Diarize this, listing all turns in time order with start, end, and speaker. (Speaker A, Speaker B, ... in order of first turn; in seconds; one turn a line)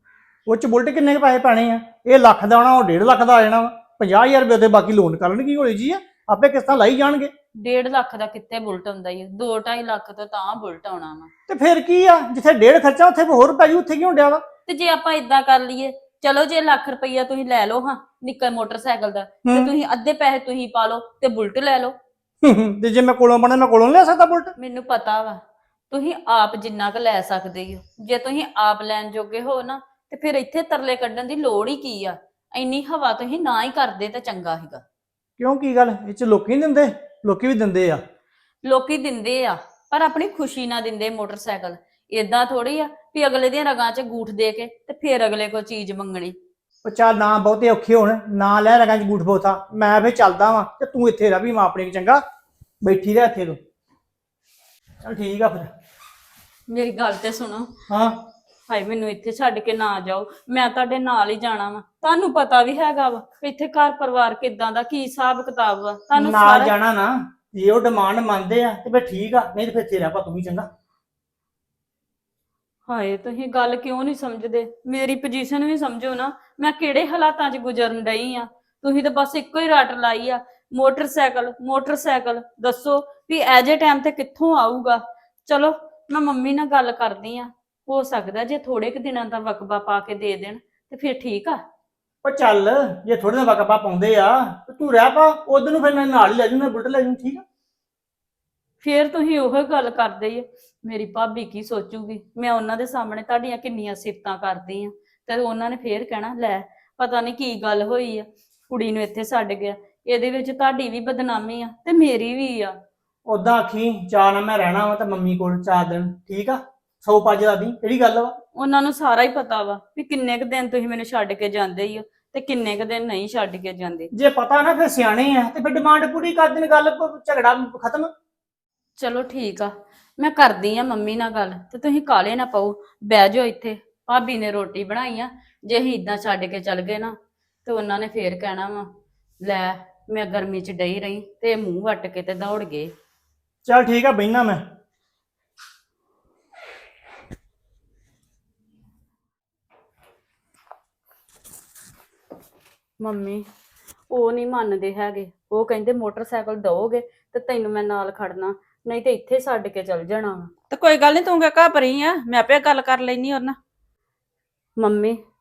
Speaker A: 0.5-7.3
Speaker B: 7.6-11.3
Speaker A: 11.5-14.4
Speaker B: 14.7-21.9
Speaker A: 19.5-19.7
Speaker A: 22.4-24.5
Speaker B: 24.6-34.8
Speaker A: 35.4-38.0
Speaker B: 38.6-46.4
Speaker A: 46.9-52.2
Speaker A: 52.8-53.6
Speaker A: 55.0-55.7
Speaker B: 56.7-57.7
Speaker A: 57.9-58.2
Speaker B: 58.7-66.7
Speaker A: 66.1-70.7
Speaker B: 72.9-91.6
Speaker A: 92.2-97.4
Speaker B: 98.8-112.8
Speaker A: 113.3-118.3
Speaker B: 118.5-124.1
Speaker A: 124.1-128.1
Speaker B: 129.0-138.9
Speaker B: 139.4-142.9
Speaker A: 143.7-144.6
Speaker B: 153.0-153.4
Speaker B: 154.1-160.5
Speaker C: 160.7-163.6
Speaker B: 164.8-165.2